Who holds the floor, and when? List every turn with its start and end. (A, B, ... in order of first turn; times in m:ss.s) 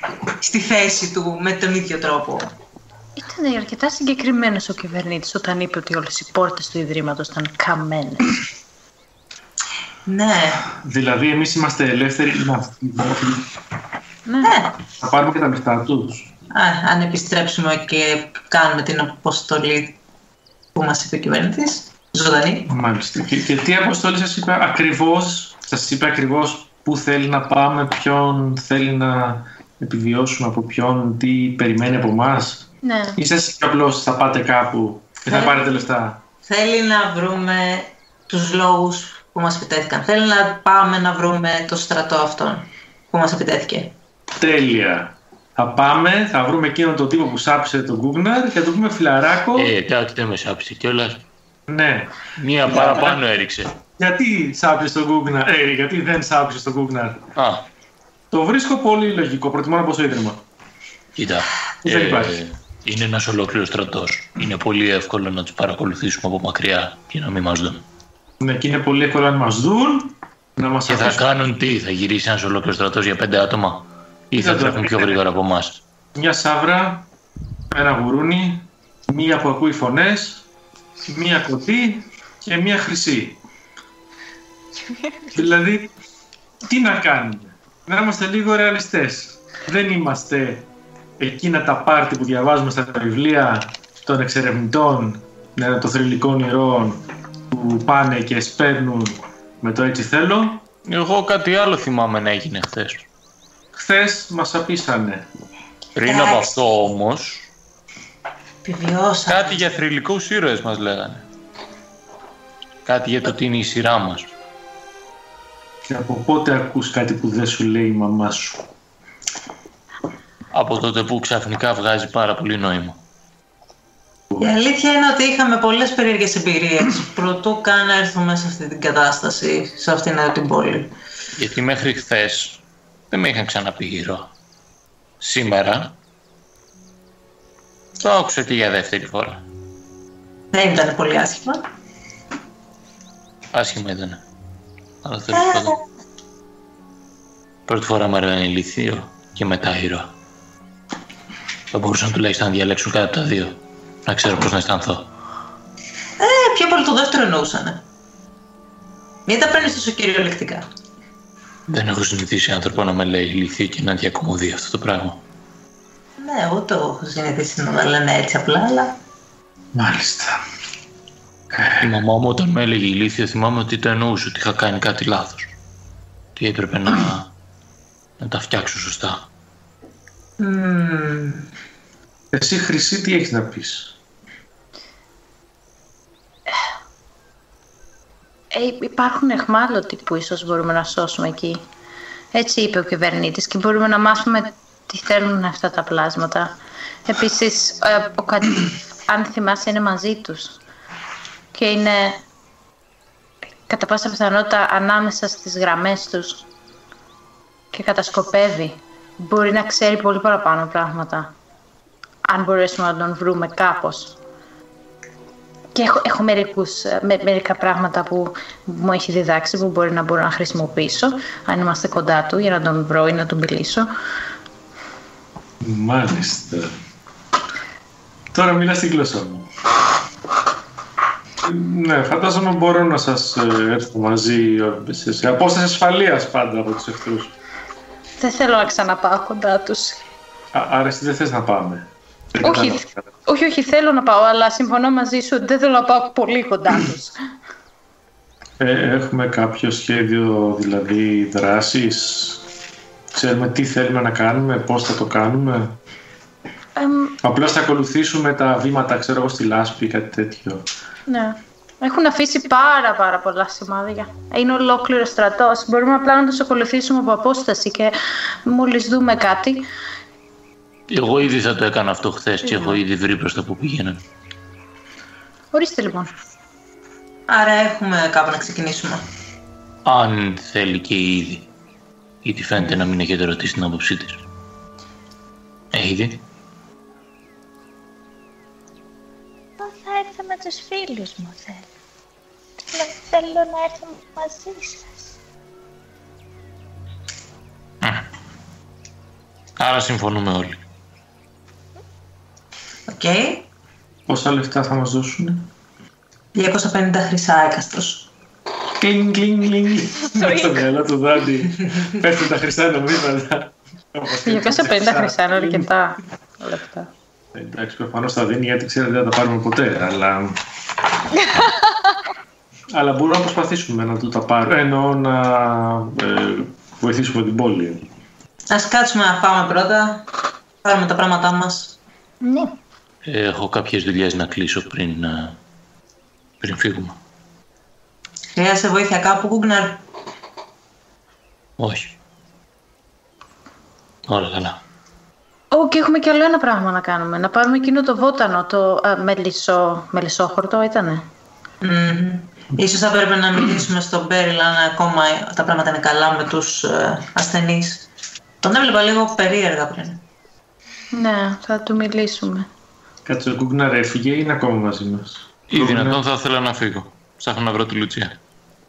0:00.4-0:02.5 A
0:03.2-0:08.4 B
0:10.1-0:10.6 A
0:10.8-0:13.5 C
0:14.3-0:14.5 B
0:14.4-0:14.8 A
0:14.9-0:16.3 C
0:16.5-0:20.0 A
0:20.8-0:22.7 A
0:22.7-0:36.2 C
0:32.8-0:33.2 B
0:35.3-0:35.6 A
0:36.4-0:43.9 A
0:44.4-0:49.7 C
0:49.6-0:51.2 D
0:51.7-0:53.2 C
0:52.4-0:53.7 D
0:54.0-0:57.2 C
0:57.4-0:57.6 D
0:58.3-1:00.4 C
1:01.2-1:07.8 D
1:01.8-1:02.4 C
1:08.4-1:11.3 C
1:10.9-1:15.8 D
1:14.4-1:15.2 C
1:16.2-1:17.1 C
1:17.7-1:20.4 C
1:21.0-1:23.4 C
1:24.9-1:25.5 E
1:25.3-1:25.9 C
1:26.6-1:30.7 C
1:31.2-1:40.6 C
1:40.8-1:43.1 D
1:43.7-1:45.3 C
1:46.0-1:47.5 D
1:46.1-1:46.6 A
1:48.6-1:49.6 A
1:49.3-1:51.2 D
1:52.9-1:54.3 D
1:55.9-1:58.6 C
2:00.5-2:03.0 D
2:04.4-2:10.9 A
2:11.3-2:14.3 D
2:15.2-2:16.0 D
2:18.0-2:19.4 D
2:20.5-2:21.6 A
2:23.5-2:24.2 D
2:25.0-2:25.8 D
2:25.3-2:25.8 A
2:27.7-2:30.1 D
2:31.7-2:35.1 D
2:36.2-2:37.8 A
2:39.3-2:40.7 A
2:41.7-2:45.2 D
2:46.2-2:49.0 A
2:49.8-2:50.4 C
2:51.5-2:52.0 C
2:51.8-2:55.6 D
2:56.4-2:57.3 D
2:58.2-2:59.3 D
3:00.4-3:01.5 A
3:02.3-3:04.0 C
3:08.5-3:11.6 B
3:12.3-3:16.5 B
3:17.1-3:20.6 B
3:21.5-3:22.2 B
3:23.7-3:26.5 B
3:27.7-3:31.3 B
3:32.3-3:34.2 B
3:35.8-3:43.9 B
3:45.6-3:46.7 C
3:48.3-3:49.5 C
3:51.4-3:57.3 C
3:58.2-4:00.0 B
4:00.5-4:03.0 C
4:02.4-4:07.2 B
4:08.6-4:12.5 C
4:13.1-4:15.8 C
4:16.8-4:17.2 B
4:17.2-4:20.7 C
4:21.1-4:27.9 B
4:28.5-4:29.7 B
4:30.9-4:34.0 D
4:32.4-4:32.8 B
4:35.5-4:36.1 B
4:37.3-4:39.0 A
4:39.8-4:41.5 D
4:42.2-4:44.2 D
4:45.7-4:46.2 D
4:49.6-4:51.7 E
4:52.7-4:55.1 E
4:59.6-5:00.6 D
5:02.9-5:03.5 A
5:04.1-5:05.5 C
5:06.4-5:08.1 A
5:08.8-5:15.7 C
5:10.0-5:10.6 E
5:14.2-5:16.9 B
5:17.3-5:20.4 C
5:22.7-5:27.8 C
5:28.5-5:30.1 A
5:30.6-5:31.8 A
5:32.2-5:32.5 B
5:33.0-5:35.4 D
5:36.4-5:37.0 D
5:38.4-5:39.8 A
5:41.6-5:42.0 D
5:44.1-5:44.6 D
5:45.5-5:51.0 B
5:51.6-5:57.9 A
5:58.4-6:00.0 A
6:00.9-6:02.5 B
6:03.1-6:06.0 C
6:05.5-6:08.2 D